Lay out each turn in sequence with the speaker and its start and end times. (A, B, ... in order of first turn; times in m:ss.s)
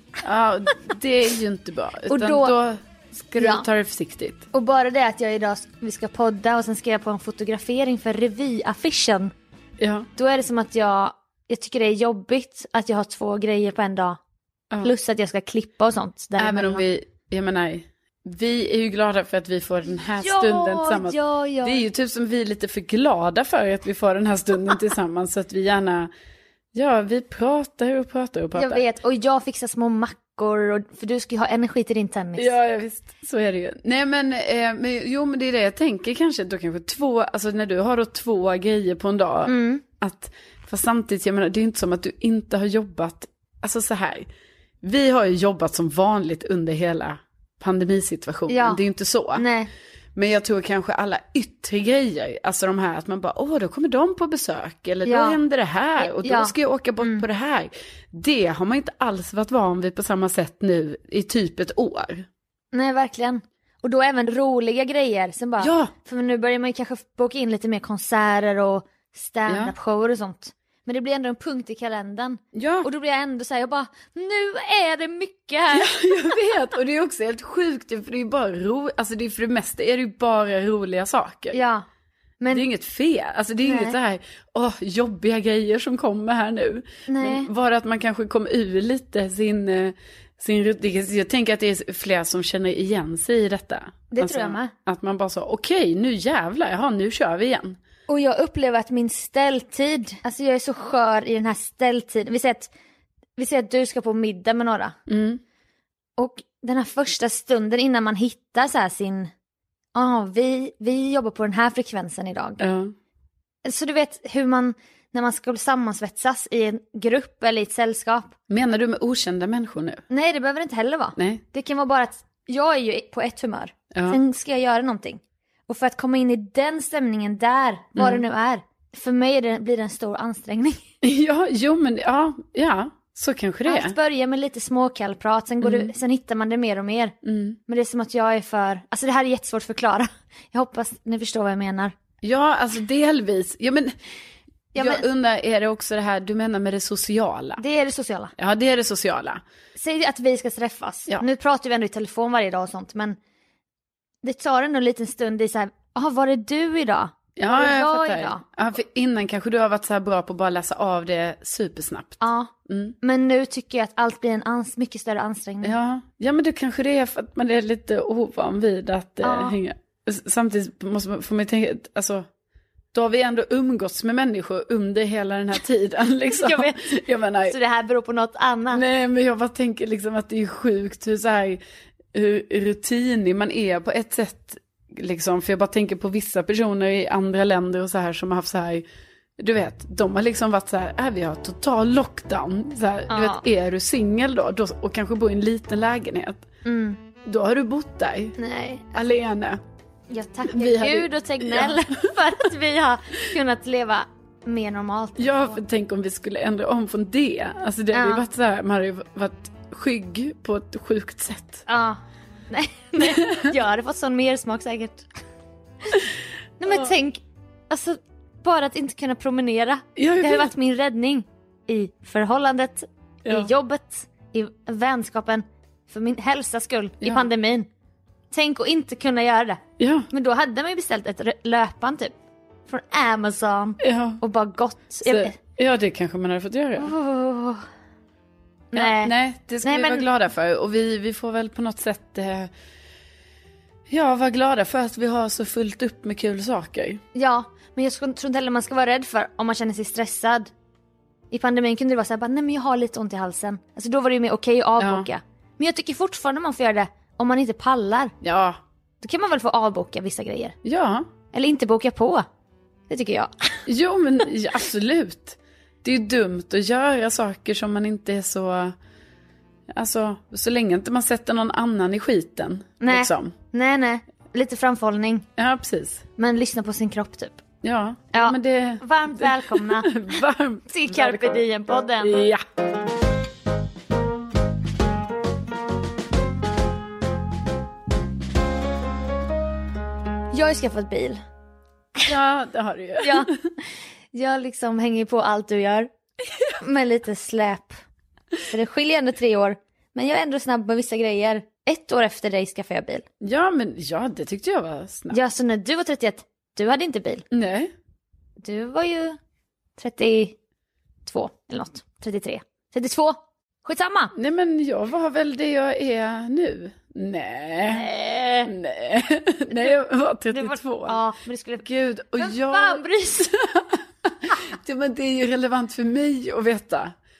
0:00.2-0:04.4 A
0:02.1-0:02.5 B
0:03.4-0:03.6 B
0:04.5-0:09.3 B
0:09.8-0:10.1 A
0:10.2-0:14.2 B
0:14.8-0:16.8 B
0:16.4-0:26.1 A
0:19.9-0:21.8 B
0:26.7-0:28.8 A
0:28.5-0:32.5 B
0:32.4-0:44.3 A
0:39.4-0:39.8 B
0:44.8-0:49.4 A
0:48.5-0:48.8 B
0:49.3-0:49.7 B
0:50.2-1:02.3 A
0:55.0-0:55.4 B
0:56.0-0:57.2 B
1:02.7-1:15.9 B
1:05.6-1:05.9 A
1:09.5-1:09.7 A
1:12.5-1:12.9 A
1:15.7-1:21.6 A
1:21.5-1:21.8 B
1:22.4-1:22.6 B
1:22.5-1:37.8 A
1:23.6-1:24.0 B
1:27.1-1:27.5 B
1:34.1-1:34.7 B
1:38.1-1:42.7 B
1:43.4-1:45.0 B
1:45.1-1:45.4 A
1:46.2-1:49.3 B
1:49.9-1:52.6 B
1:52.6-1:52.9 A
1:53.6-1:58.3 B
1:58.5-2:00.0 A
2:00.1-2:10.8 B
2:01.2-2:01.4 A
2:11.0-2:14.0 A
2:13.7-2:17.2 B
2:15.6-2:15.9 A
2:17.2-2:17.6 A
2:17.7-2:21.9 B
2:22.2-2:23.9 A
2:24.7-2:25.0 B
2:24.8-2:27.6 A
2:27.6-2:28.3 B
2:28.4-2:29.4 A
2:29.8-2:33.2 B
2:34.2-2:38.4 B
2:37.4-2:43.0 A
2:42.2-2:42.5 B
2:43.0-2:45.8 B
2:45.6-2:52.3 A
2:49.2-2:49.6 B
2:52.9-2:57.6 A
2:56.3-2:56.9 B
2:57.5-2:58.8 B
2:58.7-3:01.6 A
3:02.1-3:08.8 A
3:09.4-3:16.4 A
3:13.1-3:13.4 B
3:16.6-3:17.0 B
3:17.2-3:18.4 A
3:18.4-3:19.0 B
3:18.9-3:19.6 A
3:20.1-3:25.6 B
3:20.5-3:21.8 A
3:25.2-3:31.6 A
3:27.9-3:28.2 B
3:31.7-3:35.1 B
3:33.0-3:33.4 A
3:36.6-3:47.7 B
3:40.0-3:40.5 A
3:47.0-3:47.3 A
3:48.3-3:52.1 B
3:49.8-3:50.1 A
3:52.7-3:55.4 B
3:53.8-3:54.2 A
3:55.0-3:56.9 A
3:56.8-3:57.6 B
3:58.7-4:00.1 B
3:58.7-4:02.5 A
4:03.9-4:07.0 A
4:07.1-4:10.5 B
4:11.3-4:18.1 B
4:14.8-4:15.1 A
4:18.2-4:18.6 A
4:19.0-4:20.6 B
4:20.6-4:21.1 A
4:21.3-4:22.2 B
4:22.9-4:23.6 B
4:23.7-4:28.7 A
4:29.7-4:33.3 A
4:32.8-4:35.3 B
4:35.4-4:36.0 A
4:36.2-4:37.4 B
4:37.6-4:41.4 A
4:38.1-4:39.9 B
4:40.7-4:42.2 B
4:42.0-4:42.4 A
4:50.3-4:51.2 B
4:52.0-4:53.3 A
4:53.0-4:53.3 B
4:54.1-4:55.9 B
4:56.6-4:57.8 B
4:58.5-5:03.0 B
5:03.2-5:05.2 A
5:05.1-5:07.2 B
5:07.3-5:07.7 A
5:08.4-5:09.2 B
5:09.8-5:10.4 B
5:11.0-5:14.1 B
5:14.1-5:17.9 A
5:17.7-5:18.5 B
5:18.5-5:21.0 A
5:20.3-5:21.6 B
5:21.6-5:26.9 A
5:22.2-5:23.3 B